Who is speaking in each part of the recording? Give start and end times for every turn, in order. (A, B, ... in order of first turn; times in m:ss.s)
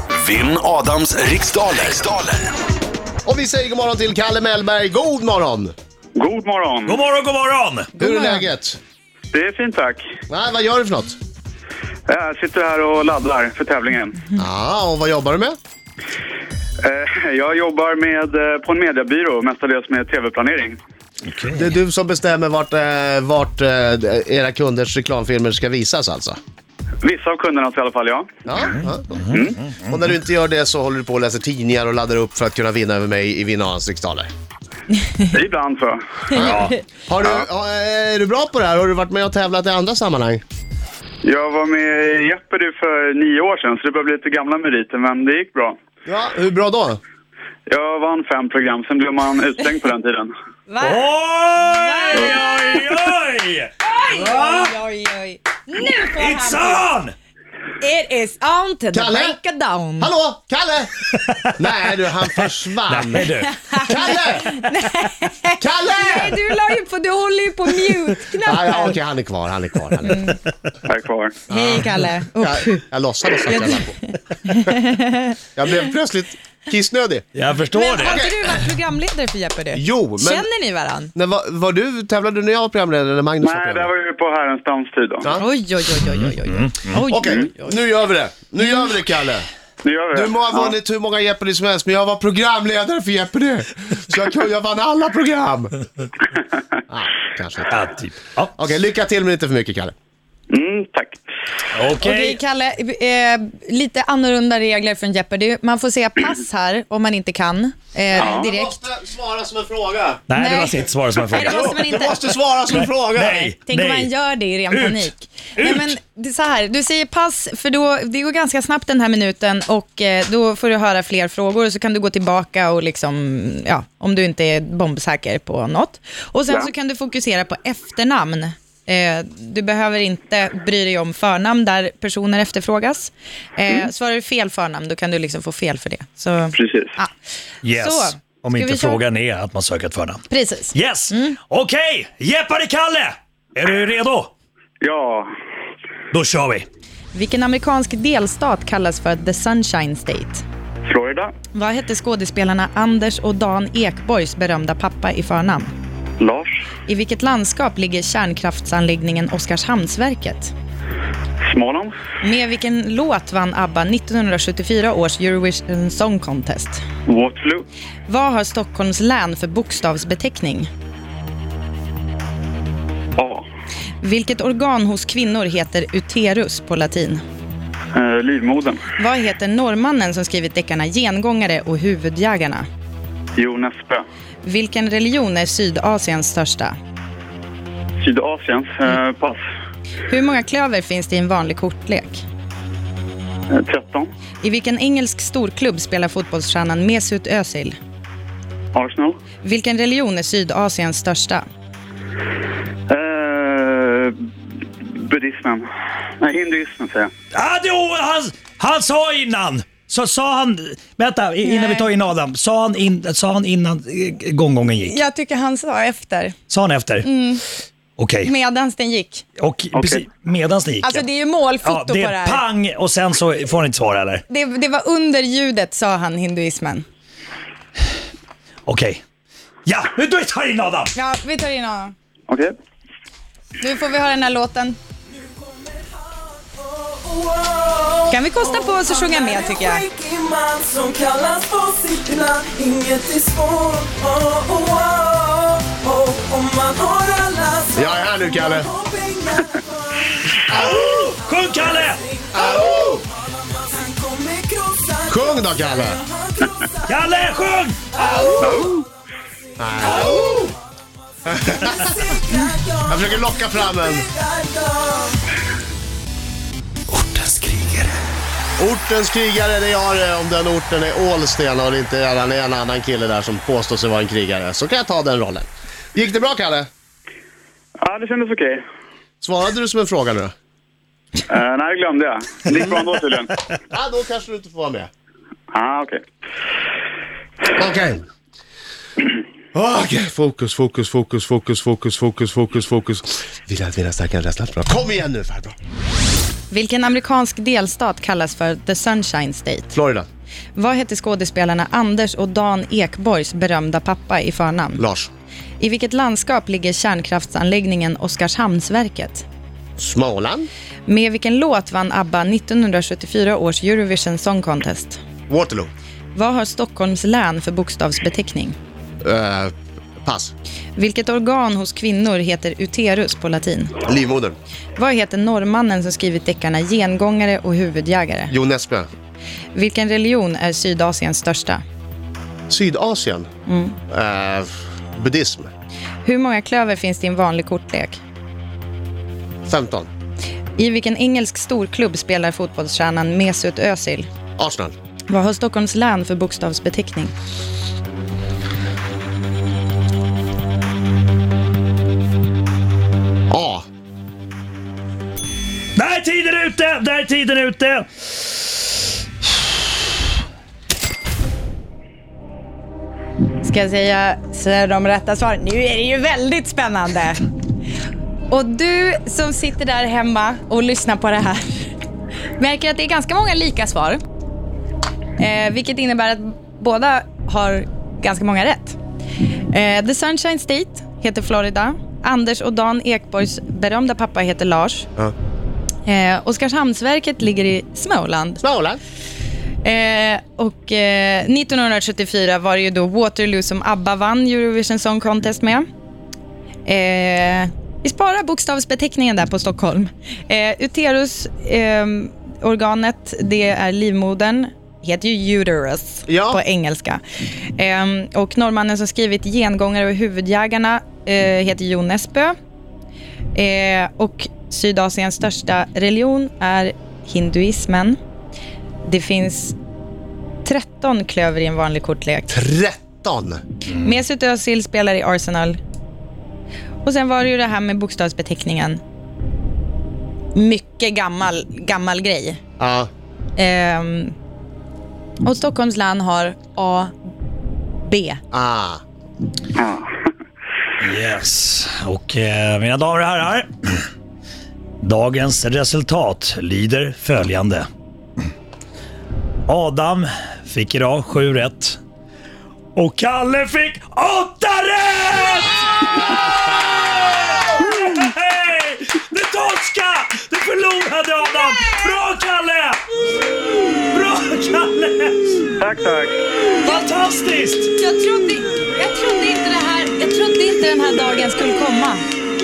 0:00.2-0:02.3 A
0:03.2-0:05.7 B
0:06.2-0:07.0 C
0:06.8-0:07.9 D
0:08.0-0:08.8 B
0:08.0-0:08.4 E
0:09.3-0:10.1 C
0:10.3-0:11.1 B
0:12.1-0:14.2 C
0:14.4-0:15.6 B
0:16.8-0:20.8 C
0:21.2-0:21.6 D
0:21.5-0:26.4 B
0:27.0-0:28.3 C
0:28.4-0:29.2 B
0:28.7-0:29.9 D
0:29.3-0:29.6 C
0:29.8-0:34.3 B
0:35.3-0:36.2 C
0:36.3-0:40.4 B
0:36.4-0:36.8 D
0:41.2-0:45.8 C
0:46.0-0:47.0 B
0:47.7-0:50.3 C
0:50.7-0:52.4 E
0:50.8-0:54.7 D
0:53.8-0:56.8 E
0:56.0-0:57.1 D
0:57.8-1:00.1 E
0:58.9-0:59.4 B
1:00.0-1:01.0 B
1:01.1-1:01.6 D
1:01.6-1:03.2 B
1:02.9-1:03.5 D
1:03.4-1:09.0 E
1:03.8-1:04.6 B
1:05.6-1:06.4 B
1:08.4-1:10.2 B
1:10.1-1:10.3 E
1:10.8-1:11.4 C
1:11.5-1:11.8 B
1:11.5-1:12.8 E
1:12.4-1:14.0 B
1:13.4-1:13.8 E
1:14.4-1:15.3 E
1:15.6-1:17.2 B
1:17.4-1:18.2 D
1:17.7-1:21.1 E
1:18.0-1:18.4 B
1:19.7-1:20.4 B
1:21.1-1:23.9 B
1:23.4-1:25.3 C
1:25.3-1:27.8 E
1:26.1-1:27.0 D
1:27.1-1:29.4 B
1:29.8-1:30.7 C
1:30.1-1:35.7 B
1:36.9-1:37.7 B
1:37.7-1:38.5 D
1:38.6-1:39.9 B
1:40.5-1:41.2 C
1:41.7-1:42.4 D
1:42.0-1:48.8 E
1:48.2-1:50.2 B
1:48.2-1:48.4 C
1:50.3-1:52.0 D
1:50.3-1:52.3 E
1:51.5-1:53.5 B
1:52.7-1:54.1 D
1:53.6-2:17.1 E
1:54.7-1:55.0 D
1:55.6-1:55.9 D
2:16.5-2:16.9 C
2:17.6-2:24.3 D
2:17.7-2:19.0 E
2:20.3-2:21.2 E
2:24.8-2:25.3 C
2:26.1-2:26.6 D
2:27.1-2:30.4 E
2:30.8-2:31.3 C
2:31.5-2:35.7 E
2:36.2-2:36.6 C
2:36.8-2:40.5 E
2:41.4-2:42.0 C
2:42.2-2:46.8 E
2:47.0-2:47.6 C
2:48.1-2:50.7 E
2:53.2-2:53.5 C
2:54.0-2:57.2 E
2:57.9-2:58.8 C
2:59.0-3:02.6 E
3:03.4-3:04.0 C
3:04.4-3:06.8 E
3:08.0-3:09.4 C
3:10.1-3:12.2 E
3:13.5-3:14.1 C
3:14.4-3:17.7 E
3:18.7-3:19.2 C
3:19.4-3:21.4 E
3:22.9-3:24.3 C
3:24.8-3:25.7 C
3:26.2-3:27.1 C
3:27.3-3:35.0 D
3:31.4-3:31.9 E
3:34.9-3:36.3 E
3:36.5-3:37.1 D
3:37.0-3:37.4 E
3:38.0-3:38.3 D
3:38.2-3:39.2 E
3:39.4-3:41.0 D
3:40.8-3:42.4 E
3:41.6-3:44.2 D
3:44.3-3:46.8 E
3:48.6-3:49.0 D
3:49.6-3:50.9 D
3:50.9-3:51.9 E
3:52.3-3:52.5 C
3:53.6-3:54.8 E
3:56.4-4:10.3 F
3:58.1-3:59.8 E
4:07.7-4:08.7 B
4:10.5-4:12.0 D
4:10.6-4:10.8 B
4:12.1-4:17.3 F
4:12.3-4:13.0 B
4:15.1-4:16.0 B
4:16.8-4:18.6 D
4:18.0-4:18.8 F
4:18.4-4:18.8 C
4:19.6-4:20.5 B
4:19.8-4:20.5 D
4:21.3-4:21.9 B
4:21.6-4:25.2 F
4:22.8-4:24.0 B
4:27.0-4:27.8 D
4:28.6-4:36.7 B
4:37.8-4:38.6 C
4:39.2-4:40.3 B
4:41.3-4:43.4 C
4:43.7-4:44.9 B
4:45.5-4:46.0 C
4:47.6-4:48.0 B
4:49.5-4:55.6 B
4:56.5-4:59.7 E
4:59.7-5:00.0 B
5:00.5-5:04.8 E
5:04.8-5:05.1 B
5:05.6-5:09.2 E
5:09.8-5:10.5 B
5:10.8-5:15.0 E
5:15.3-5:15.7 B
5:16.1-5:18.6 E
5:19.0-5:20.3 B
5:20.8-5:23.7 E
5:23.8-5:24.4 B
5:24.8-5:28.3 E
5:28.3-5:28.9 B
5:29.5-5:31.6 E
5:32.5-5:33.3 B
5:33.5-5:33.8 E
5:33.9-5:35.5 B
5:36.0-5:38.0 E
5:39.5-5:39.9 B
5:40.6-5:44.1 E
5:44.4-5:44.7 B
5:45.1-5:47.1 E
5:53.3-5:53.6 B
5:55.8-5:57.8 D
6:03.4-6:07.2 E
6:08.3-6:11.7 E
6:12.4-6:14.0 E
6:15.2-6:18.8 E
6:19.5-6:24.9 E
6:25.8-6:28.4 E
6:28.4-6:28.8 B
6:29.6-6:35.6 E
6:36.6-6:47.0 E
6:46.1-6:46.4 B
6:47.6-6:52.3 E
6:53.3-6:58.0 E
6:58.8-6:59.6 E
7:00.4-7:02.4 E
7:02.3-7:03.4 B
7:03.7-7:05.6 E
7:06.8-7:08.8 E
7:10.3-7:12.4 E
7:12.6-7:12.9 B
7:13.4-7:14.1 E
7:15.2-7:16.9 E
7:17.8-7:18.2 E
7:18.3-7:18.8 B
7:19.5-7:19.9 C
7:20.8-7:23.8 D
7:24.8-7:27.7 D
7:29.5-7:31.8 D
7:32.8-7:42.8 D
7:43.8-7:45.5 D
7:45.6-7:46.2 C
7:46.6-7:47.7 D
7:46.6-7:46.9 E
7:47.8-7:52.0 E